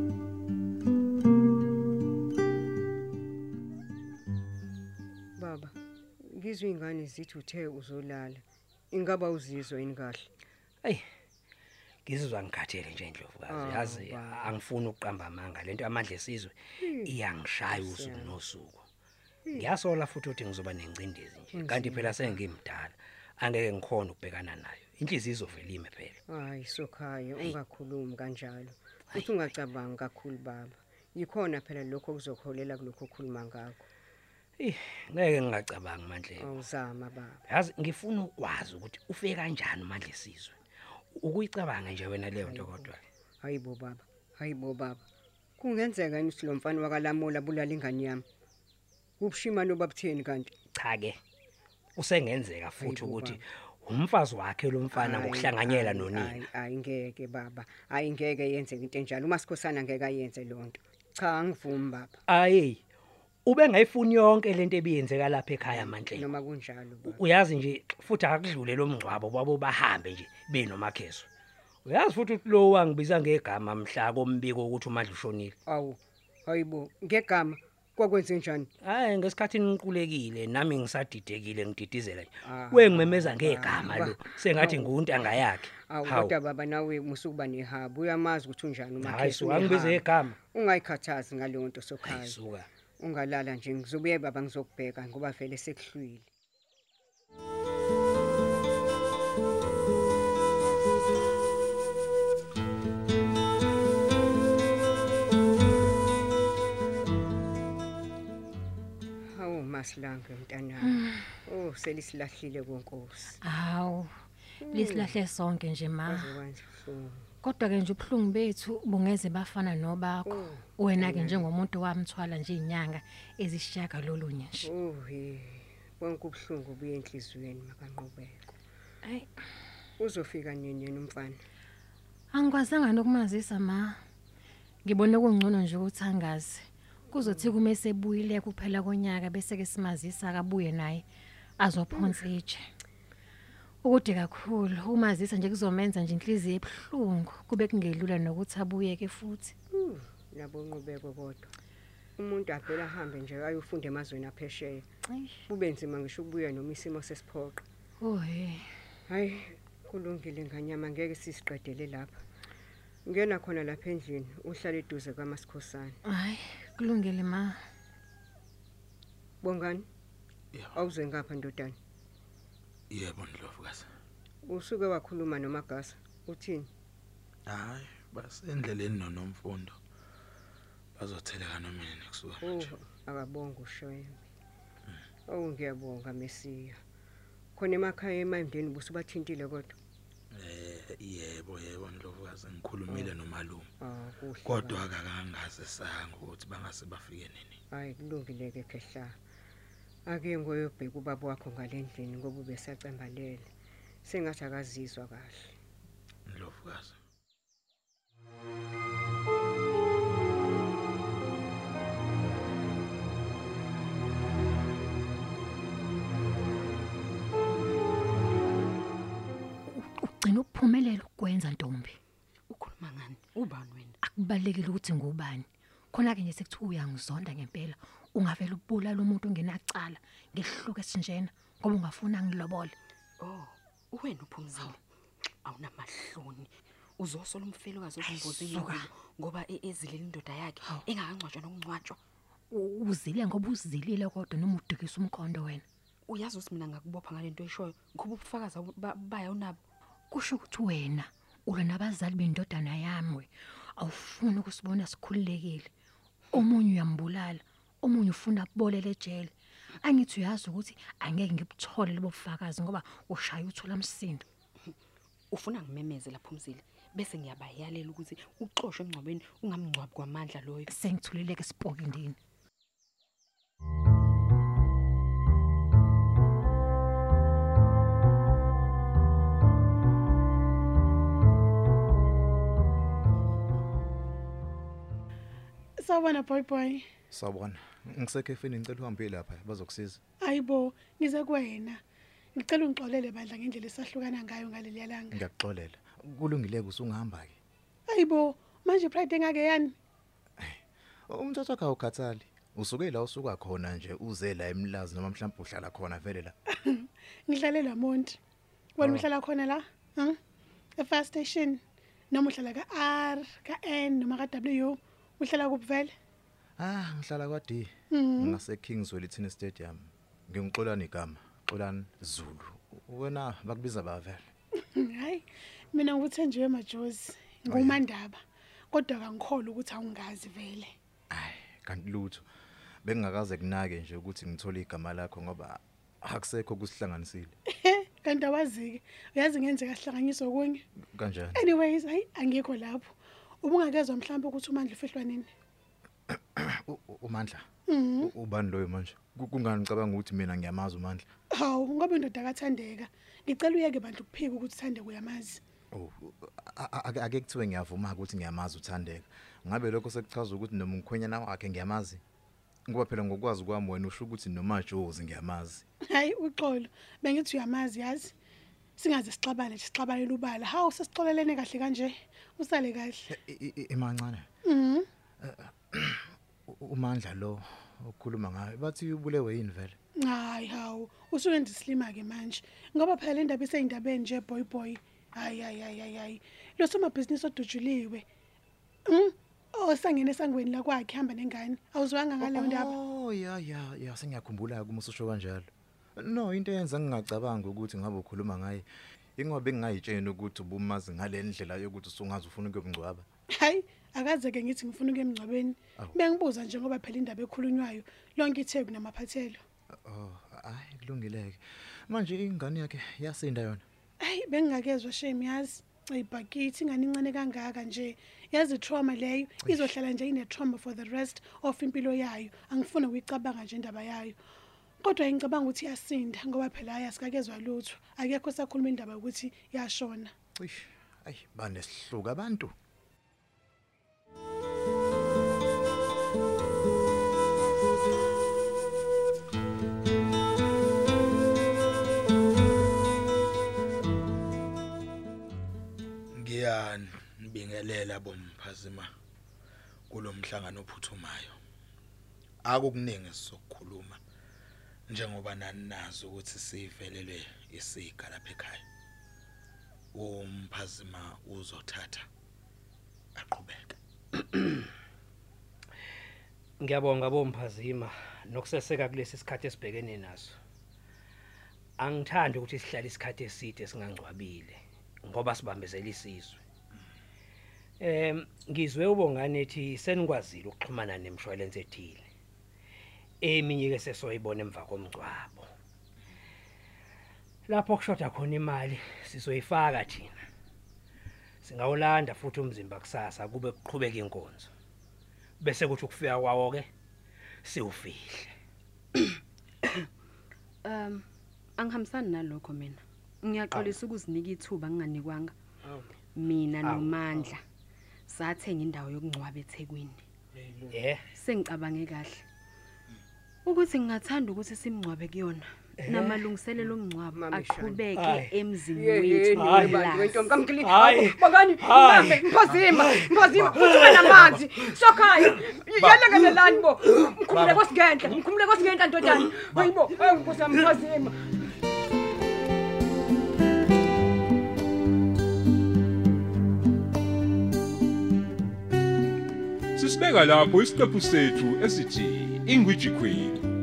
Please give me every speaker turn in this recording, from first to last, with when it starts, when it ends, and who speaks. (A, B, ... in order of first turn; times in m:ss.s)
0:05.4-0:10.3 A
0:12.1-0:18.8 B
0:13.5-0:14.5 A
0:16.8-0:17.2 A
0:17.7-0:18.4 A
0:19.5-0:19.7 A
0:19.6-0:26.2 B
0:21.5-0:22.3 A
0:26.3-0:33.8 A
0:34.6-0:36.5 B
0:36.4-0:37.4 A
0:37.5-0:40.6 B
0:41.2-0:43.0 B
0:42.4-0:45.0 A
0:45.6-0:48.2 A
0:49.2-0:50.5 A
0:50.8-0:51.2 B
0:52.0-0:56.5 B
0:52.8-0:53.4 A
0:54.9-1:02.2 A
1:02.3-1:02.8 B
1:03.5-1:06.3 B
1:05.7-1:07.2 A
1:07.0-1:11.3 B
1:11.9-1:15.6 B
1:15.7-1:18.7 A
1:18.8-1:26.3 B
1:22.4-1:25.0 A
1:25.9-1:32.4 A
1:29.0-1:30.4 B
1:32.0-1:32.7 B
1:33.0-1:36.3 A
1:49.3-1:53.4 A
1:50.8-1:51.3 C
1:53.4-1:54.1 C
1:54.6-1:55.2 A
1:54.7-1:56.3 C
1:56.1-1:57.3 A
1:57.4-2:04.7 C
2:00.3-2:01.5 A
2:04.6-2:08.6 A
2:10.0-2:11.4 A
2:12.3-2:14.0 C
2:14.8-2:21.0 C
2:17.2-2:17.5 A
2:21.6-2:22.6 C
2:23.8-2:29.6 C
2:29.7-2:31.5 A
2:32.2-2:34.9 A
2:35.1-2:35.4 C
2:35.5-2:37.6 A
2:38.0-2:38.7 C
2:39.1-2:42.2 A
2:43.0-2:46.0 A
2:46.1-2:47.6 C
2:49.4-2:49.9 A
2:50.7-2:51.8 A
2:52.9-2:53.9 D
2:54.4-2:56.7 A
2:57.5-2:59.8 D
3:01.0-3:02.7 D
3:02.4-3:04.2 A
3:05.3-3:06.8 A
3:07.6-3:09.8 A
3:10.3-3:13.7 D
3:12.9-3:13.1 A
3:13.8-3:14.8 A
3:14.5-3:17.6 D
3:17.7-3:19.2 A
3:20.1-3:23.5 A
3:24.0-3:25.6 A
3:26.3-3:27.0 D
3:39.7-3:42.0 C
3:42.5-3:44.0 E
3:44.0-3:52.8 C
3:53.2-3:54.8 E
3:55.4-4:02.0 E
3:58.0-3:58.9 C
4:02.5-4:05.6 C
4:06.1-4:09.6 E
4:10.1-4:15.7 C
4:16.3-4:24.2 C
4:25.3-4:30.7 E
4:30.7-4:32.2 C
4:45.8-4:46.8 F
4:47.1-4:50.0 G
4:50.2-4:51.8 F
4:52.4-4:55.2 F
4:55.1-4:57.4 G
4:57.9-4:59.7 F
5:00.4-5:06.4 G
5:06.5-5:08.2 F
5:08.8-5:10.2 F
5:10.8-5:11.6 F
5:12.1-5:15.9 F
5:16.6-5:24.2 G
5:17.9-5:18.4 F
5:24.8-5:28.2 F
5:27.5-5:27.8 G
5:28.7-5:30.7 F
5:31.1-5:32.2 G
5:32.8-5:37.4 G
5:37.5-5:40.6 F
5:40.9-5:41.4 G
5:41.4-5:42.9 F
5:43.4-5:45.3 F
5:46.1-5:47.4 G
5:47.7-5:48.1 F
5:48.0-5:51.0 G
5:51.3-5:55.4 F
5:55.7-6:02.0 G
6:02.7-6:05.6 G
6:05.8-6:08.1 F
6:08.8-6:13.0 F
6:13.1-6:14.3 G
6:14.4-6:14.9 F
6:15.2-6:19.8 G
6:20.0-6:28.0 F
6:28.9-6:32.7 F
6:32.2-6:38.7 G
6:39.2-6:43.0 G
6:43.4-6:49.4 F
6:49.9-6:53.6 G
6:54.0-7:04.2 F
6:59.4-6:59.7 G
7:04.8-7:10.1 F
7:10.4-7:12.5 G
7:26.1-7:28.9 D
7:29.9-7:31.4 D
7:32.4-7:34.0 D
7:34.9-7:38.6 D
7:39.9-7:42.1 D
7:43.2-7:43.8 D
7:46.6-7:50.4 B
7:51.8-7:56.4 B
7:57.8-8:02.1 B
8:03.2-8:05.5 B
8:07.5-8:10.2 B
8:11.4-8:14.5 B
8:15.4-8:16.7 B
8:17.4-8:18.3 B
8:20.6-8:21.0 E
8:21.6-8:25.4 E
8:23.5-8:23.8 B
8:25.6-8:26.0 A
8:26.1-8:27.4 E
8:26.6-8:27.2 B
8:28.1-8:30.0 E
8:30.4-8:30.8 A
8:30.7-8:31.1 B
8:31.1-8:32.2 E
8:33.4-8:40.2 E
8:35.8-8:36.3 B
8:36.6-8:37.8 A
8:37.9-8:38.3 B
8:38.7-8:51.2 A
8:39.3-8:44.3 B
8:47.3-8:47.6 E
8:59.8-9:03.4 H